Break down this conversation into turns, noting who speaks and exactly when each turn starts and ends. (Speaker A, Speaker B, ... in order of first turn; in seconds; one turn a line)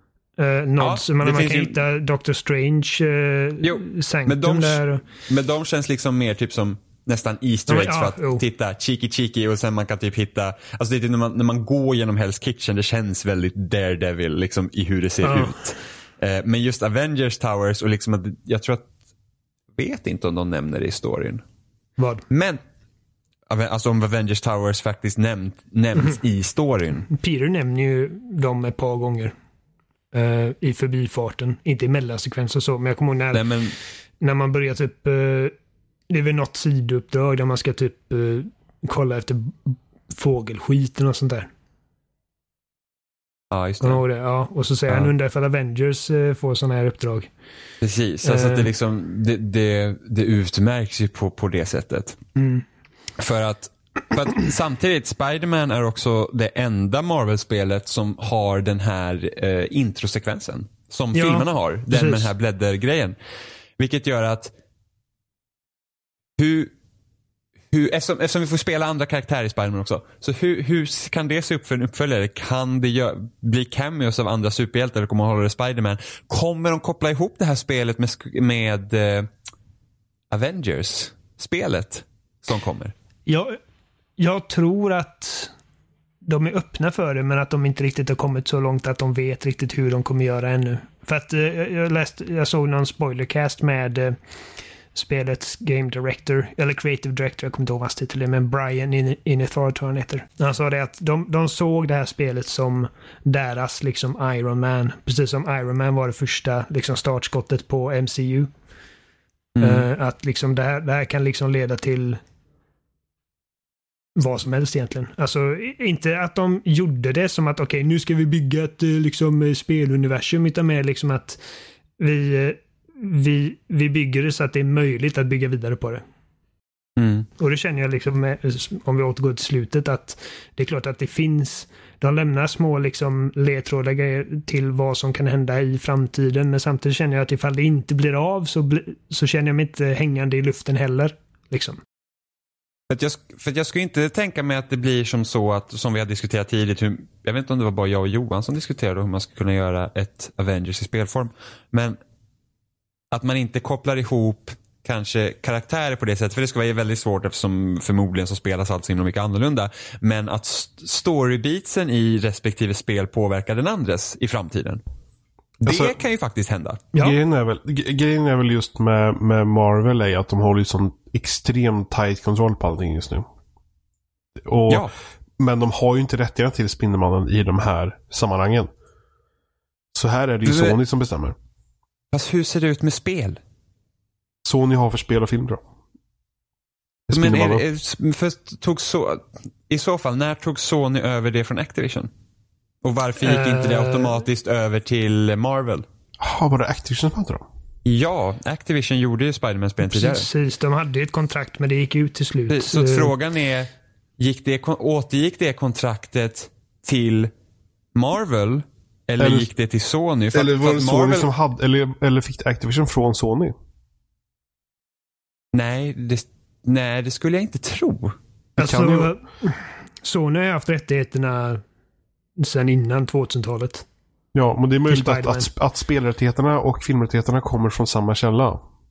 Speaker A: 0.4-5.0
Speaker B: 0.8-1.8
Speaker B: 3.6-18.9
Speaker A: 7.7-8.4
Speaker A: 15.2-15.6
Speaker B: 19.8-21.4
Speaker A: 22.0-22.2
Speaker B: 22.3-22.6
Speaker B: 23.5-27.1
Speaker A: 27.1-29.3
Speaker A: 30.1-33.5
Speaker B: 33.3-33.8
Speaker A: 34.2-35.5
Speaker A: 36.1-41.5
Speaker B: 43.5-44.0
Speaker A: 43.8-47.3
Speaker B: 47.8-52.2
Speaker A: 48.2-48.7
Speaker A: 52.4-52.6
Speaker B: 53.2-63.1
Speaker A: 61.1-62.3
Speaker B: 63.8-64.5
Speaker B: 66.4-66.7
Speaker B: 67.7-79.3
Speaker B: 80.3-82.9
Speaker A: 83.3-83.6
Speaker A: 84.2-85.5
Speaker A: 86.2-94.2
Speaker A: 94.9-108.5
Speaker B: 109.6-109.8
Speaker A: 109.6-112.2
Speaker A: 114.2-121.4
Speaker A: 122.0-126.0
Speaker B: 127.0-127.3
Speaker A: 127.4-141.8
Speaker B: 142.9-152.0
Speaker B: 153.1-164.8
Speaker B: 165.6-166.8
Speaker C: 165.7-166.0
Speaker C: 166.9-173.3
Speaker C: 174.4-174.9
Speaker C: 175.4-178.7
Speaker C: 179.9-181.4
Speaker B: 180.4-180.8
Speaker B: 182.1-183.4
Speaker C: 184.4-185.6
Speaker C: 187.1-187.6
Speaker B: 187.1-192.1
Speaker B: 192.8-195.9
Speaker A: 193.2-194.2
Speaker C: 196.2-197.4
Speaker B: 197.8-200.3
Speaker A: 199.8-203.1
Speaker B: 202.5-207.3
Speaker B: 207.9-211.3
Speaker C: 209.2-209.5
Speaker C: 210.3-213.5
Speaker B: 215.5-219.1
Speaker A: 218.6-221.6
Speaker A: 222.4-223.9
Speaker C: 224.3-228.7
Speaker A: 224.9-225.5